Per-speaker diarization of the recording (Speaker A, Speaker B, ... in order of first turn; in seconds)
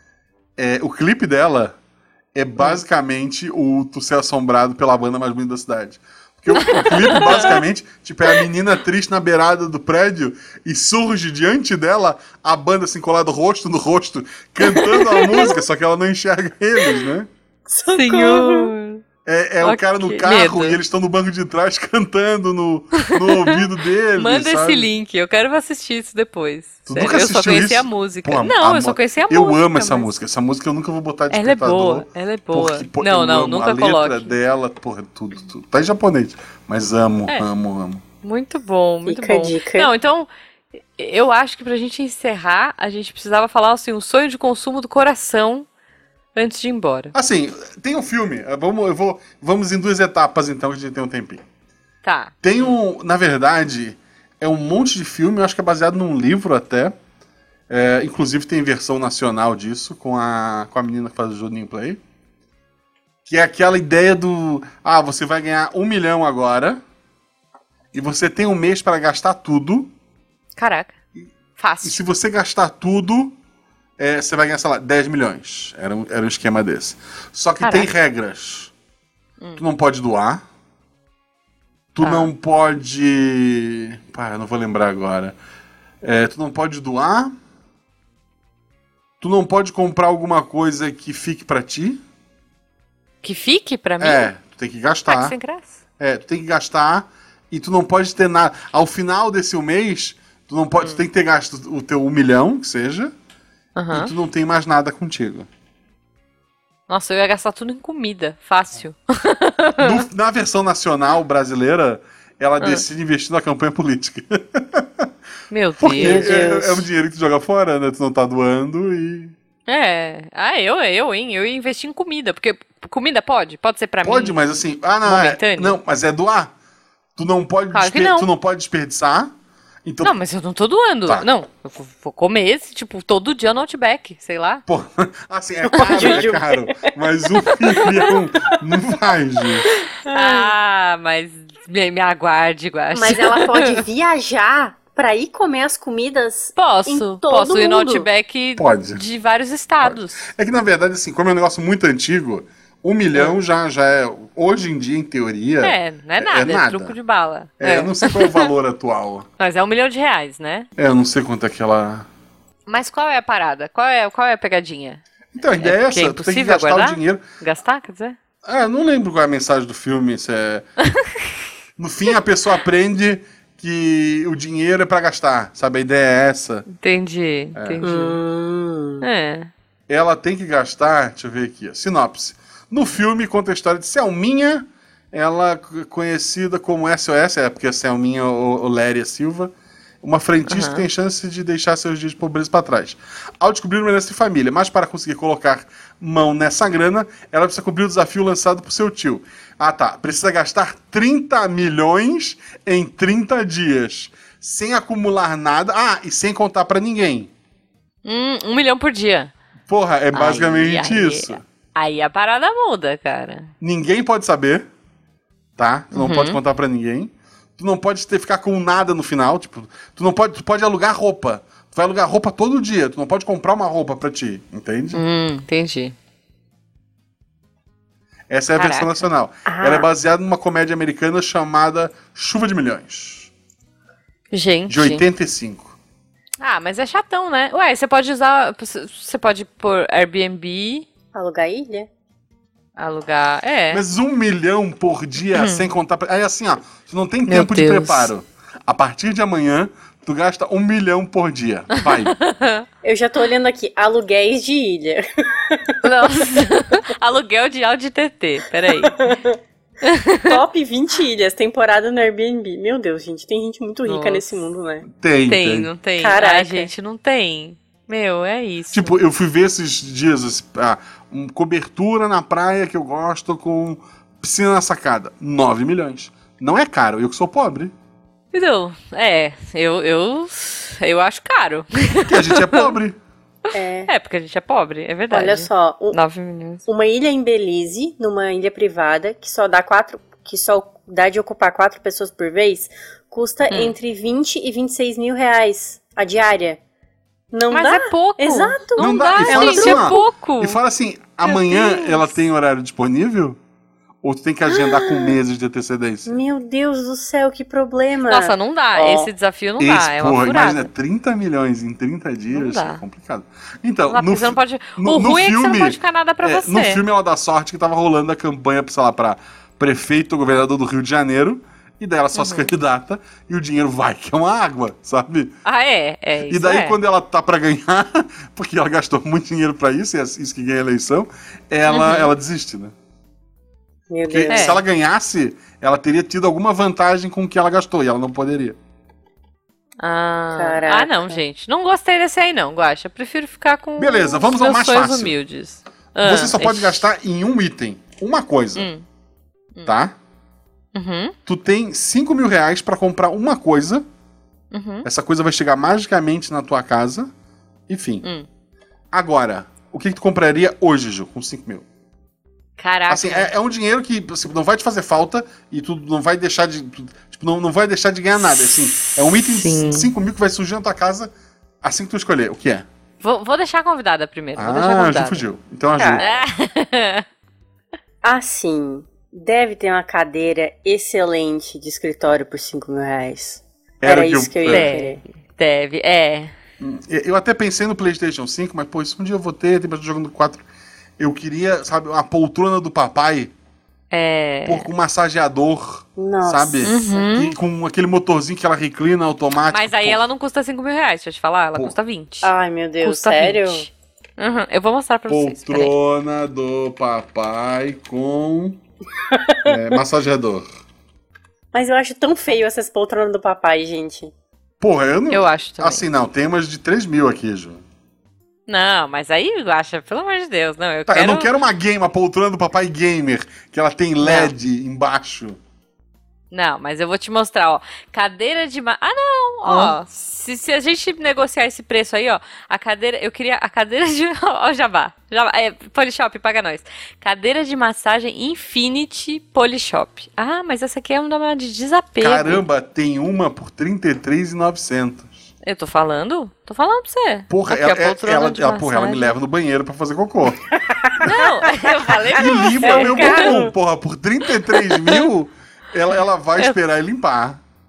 Speaker A: 0.6-1.8, 2.4-17.3, 19.3-24.9, 26.9-38.0, 47.1-51.4, 52.4-57.0, 57.7-62.0, 63.3-66.8, 67.9-69.9, 71.8-73.4, 74.0-78.7, 79.6-80.4, 82.0-85.4, 86.0-87.3, 89.2-92.0, 94.0-95.4, 96.0-103.1, 103.9-105.5, 109.8-115.1, 115.8-119.3, 124.0-126.5, 127.2-130.1, 134.7-139.7, 148.6-149.0, 149.8-157.0, 157.6-159.3, 160.8-162.1, 165.3-167.2, 168.4-170.7, 171.8-176.7, 177.6-177.8, 179.9-207.3, 209.7-211.4, 213.6-214.7, 215.6-225.0, 228.3-233.3, 234.7-235.8, 243.7-252.1, 264.9-265.7, 268.7-277.7, 282.1-283.0, 298.8-303.4, 304.0-306.1, 309.6-325.4, 326.3-332.7, 334.1-338.6, 343.8-345.1, 346.0-348.7, 349.7-349.9, 351.3-353.9, 354.8-357.1, 357.7-358.1, 358.9-361.7, 362.9-372.7, 374.4-376.0, 383.8-384.7, 386.6-390.4, 391.0-393.3, 394.4-400.0, 405.1-408.6, 409.4-410.5, 414.6-417.6, 420.9-425.4, 429.5-429.8, 442.0-445.3, 447.3-450.5, 452.1-457.4
Speaker B: 6.5-7.5, 14.7-15.5, 17.9-19.0, 19.6-20.8, 23.1-23.6, 24.2-30.1, 31.3-34.4, 38.2-40.3, 41.0-45.7, 46.4-47.1, 52.0-52.8, 70.6-71.0, 71.6-72.0, 77.6-77.9, 82.0-82.3, 93.2-94.3, 95.1-95.8, 103.8-104.1, 106.9-110.0, 115.5-116.4, 119.7-124.4, 125.0-125.8, 127.7-128.3, 130.0-134.7, 135.8-136.0, 140.1-143.8, 146.6-150.2, 155.6-158.5, 159.4-160.7, 162.7-165.0, 165.6-168.2, 176.7-178.2, 179.0-179.5, 190.5-190.8, 208.1-209.3, 210.1-213.5, 215.9-216.4, 224.9-226.0, 228.6-229.1, 234.3-235.0, 236.4-240.9, 242.8-243.8, 245.3-245.6, 247.3-248.1, 251.8-252.7, 255.8-259.1, 259.8-260.4, 263.9-264.4, 265.3-268.9, 278.3-282.7, 283.9-286.6, 297.5-300.6, 301.2-302.1, 308.1-310.7, 312.3-312.8, 313.9-316.8, 322.1-322.5, 325.4-326.8, 331.7-332.1, 334.3-334.6, 339.8-346.8, 348.6-348.9, 350.8-351.1, 354.5-354.9, 362.6-363.3, 369.2-369.9, 373.0-375.3, 376.0-377.1, 384.5-386.3, 393.9-394.7, 396.7-397.3, 399.5-405.7, 415.1-415.8, 418.5-421.3, 424.0-424.3, 426.3-442.4, 445.4-449.1, 451.0-453.3
Speaker C: 17.7-18.7, 39.1-39.9, 116.0-116.8, 135.7-136.9, 137.9-138.6, 139.8-140.5, 142.9-148.1, 177.8-179.1, 229.5-229.9, 241.1-241.9, 252.8-255.8, 258.7-259.4, 260.3-264.9, 266.0-266.7, 283.5-283.9, 285.1-286.0, 286.6-296.6, 297.3-300.1, 304.9-305.1, 306.1-309.1, 333.9-334.6, 340.4-341.2, 375.8-376.2, 378.0-385.0, 396.0-397.0, 402.2-403.7, 409.1-409.5, 411.5-414.1, 450.6-451.1, 452.6-453.5